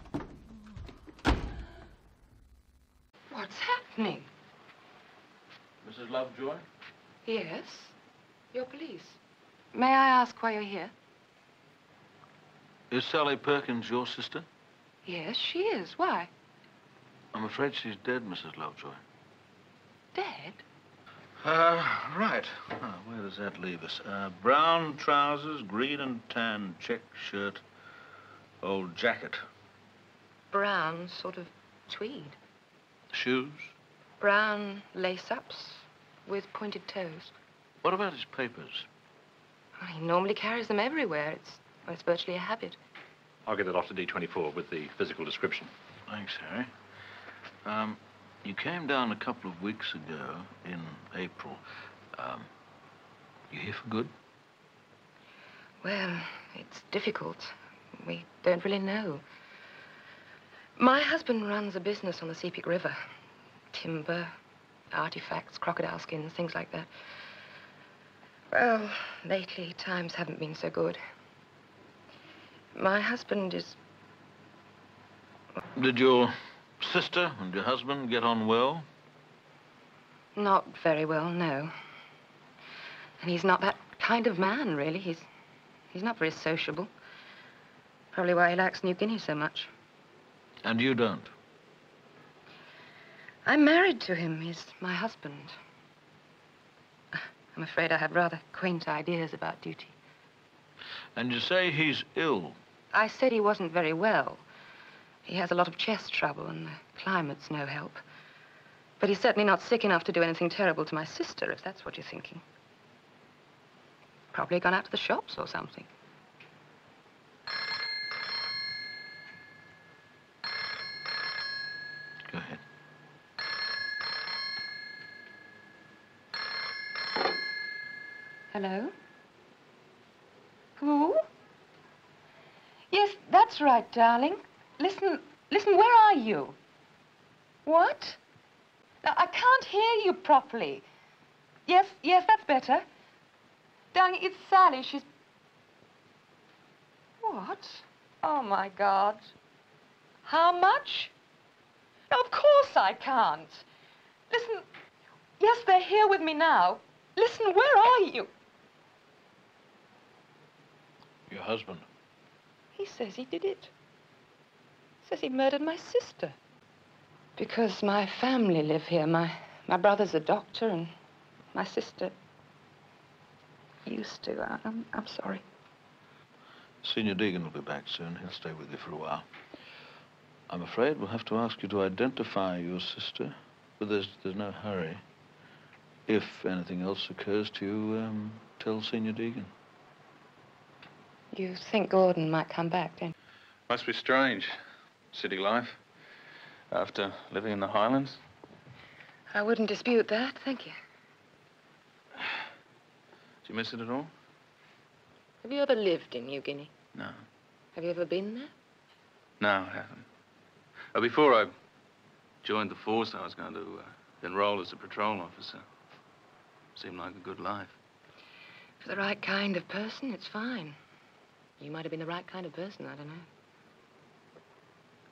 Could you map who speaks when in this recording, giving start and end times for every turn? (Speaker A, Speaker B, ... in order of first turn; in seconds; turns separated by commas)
Speaker A: 3.3-4.3, Speaker B: 5.8-6.6, Speaker A: 7.2-7.9, Speaker A: 8.5-9.2, Speaker A: 9.7-10.9, Speaker B: 12.9-14.4, Speaker A: 15.0-16.3, Speaker B: 17.3-19.0, Speaker A: 20.1-20.6, Speaker B: 21.4-27.6, Speaker B: 28.6-29.4, Speaker A: 30.5-32.4, Speaker B: 33.1-33.7, Speaker A: 34.2-37.3, Speaker B: 37.8-38.9, Speaker A: 39.8-42.8, Speaker C: 43.5-45.7, Speaker B: 46.1-46.7, Speaker B: 47.6-51.6, Speaker B: 52.1-52.5, Speaker B: 53.5-54.1, Speaker A: 55.8-59.2, Speaker A: 60.8-63.0, Speaker A: 63.7-64.3, Speaker A: 64.9-66.9, Speaker A: 68.5-71.0, Speaker A: 72.7-73.8, Speaker B: 75.8-78.8, Speaker A: 80.3-81.7, Speaker A: 83.2-85.3, Speaker A: 85.9-86.9, Speaker A: 88.1-89.7, Speaker B: 90.6-91.3, Speaker A: 93.5-95.5, Speaker A: 97.1-99.9, Speaker B: 101.2-102.6, Speaker A: 102.9-104.4, Speaker A: 105.3-108.0, Speaker A: 109.0-112.4, Speaker A: 114.3-115.9, Speaker B: 122.3-122.6, Speaker A: 128.5-128.9, Speaker A: 130.8-131.2, Speaker A: 132.9-136.6, Speaker A: 137.7-138.2, Speaker A: 139.0-140.8, Speaker A: 141.7-142.8, Speaker A: 143.9-145.1, Speaker A: 147.2-149.2, Speaker A: 150.2-151.1, Speaker A: 152.1-153.6, Speaker A: 154.3-154.6, Speaker A: 155.4-158.3, Speaker B: 161.3-161.8, Speaker A: 162.8-163.7, Speaker A: 165.0-166.3, Speaker A: 167.4-170.9, Speaker A: 171.5-172.1, Speaker A: 173.8-175.4, Speaker B: 176.8-179.2, Speaker B: 180.5-185.0, Speaker B: 186.1-189.5, Speaker A: 191.3-193.1, Speaker D: 193.7-194.5, Speaker D: 195.1-195.8, Speaker D: 196.7-198.2, Speaker A: 199.3-200.7, Speaker D: 203.4-204.1, Speaker A: 205.4-206.7, Speaker D: 206.9-207.2, Speaker A: 207.8-208.5, Speaker D: 209.4-210.1, Speaker D: 210.9-211.5, Speaker D: 212.4-215.6, Speaker D: 216.8-217.8, Speaker A: 218.8-220.8, Speaker A: 221.6-223.3